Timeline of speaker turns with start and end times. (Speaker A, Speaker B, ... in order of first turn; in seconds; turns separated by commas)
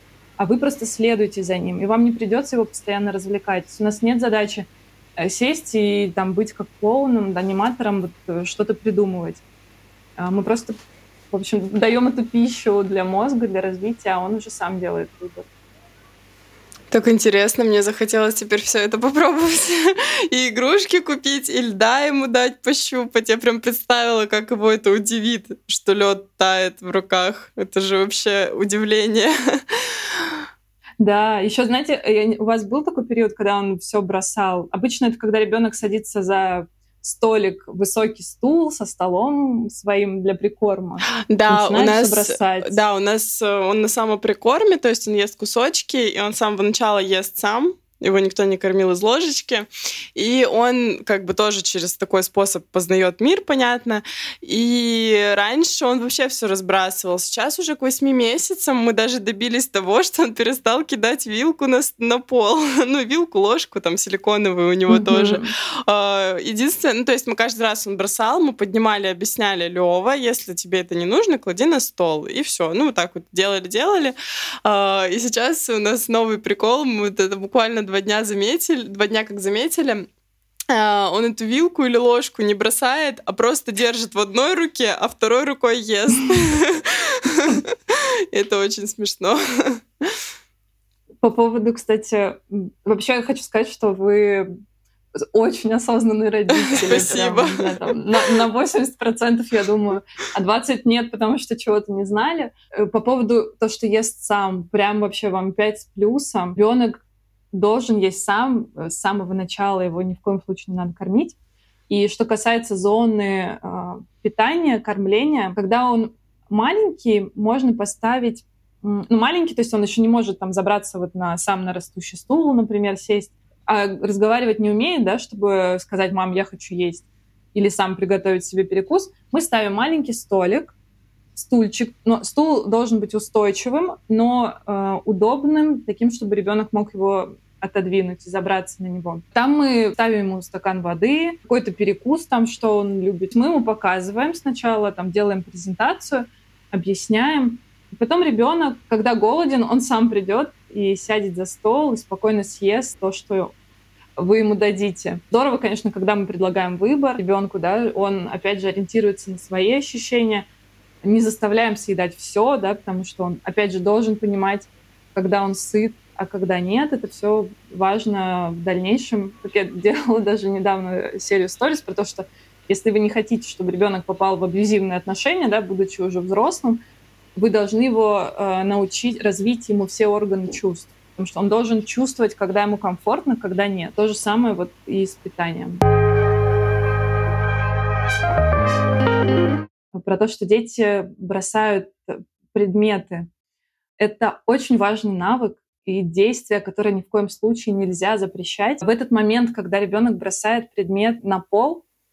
Speaker A: 0.4-9.4, Speaker A: 10.2-10.8, Speaker A: 11.3-15.5, Speaker B: 16.9-30.2, Speaker A: 31.0-42.8, Speaker B: 41.3-80.1, Speaker A: 64.9-65.5, Speaker B: 80.7-90.1, Speaker A: 91.2-94.5, Speaker A: 95.2-111.3, Speaker B: 96.5-97.8, Speaker A: 111.9-130.7, Speaker A: 131.3-153.5, Speaker A: 154.2-160.5, Speaker A: 161.0-176.8, Speaker A: 177.4-185.8, Speaker A: 189.9-193.3, Speaker A: 194.0-201.8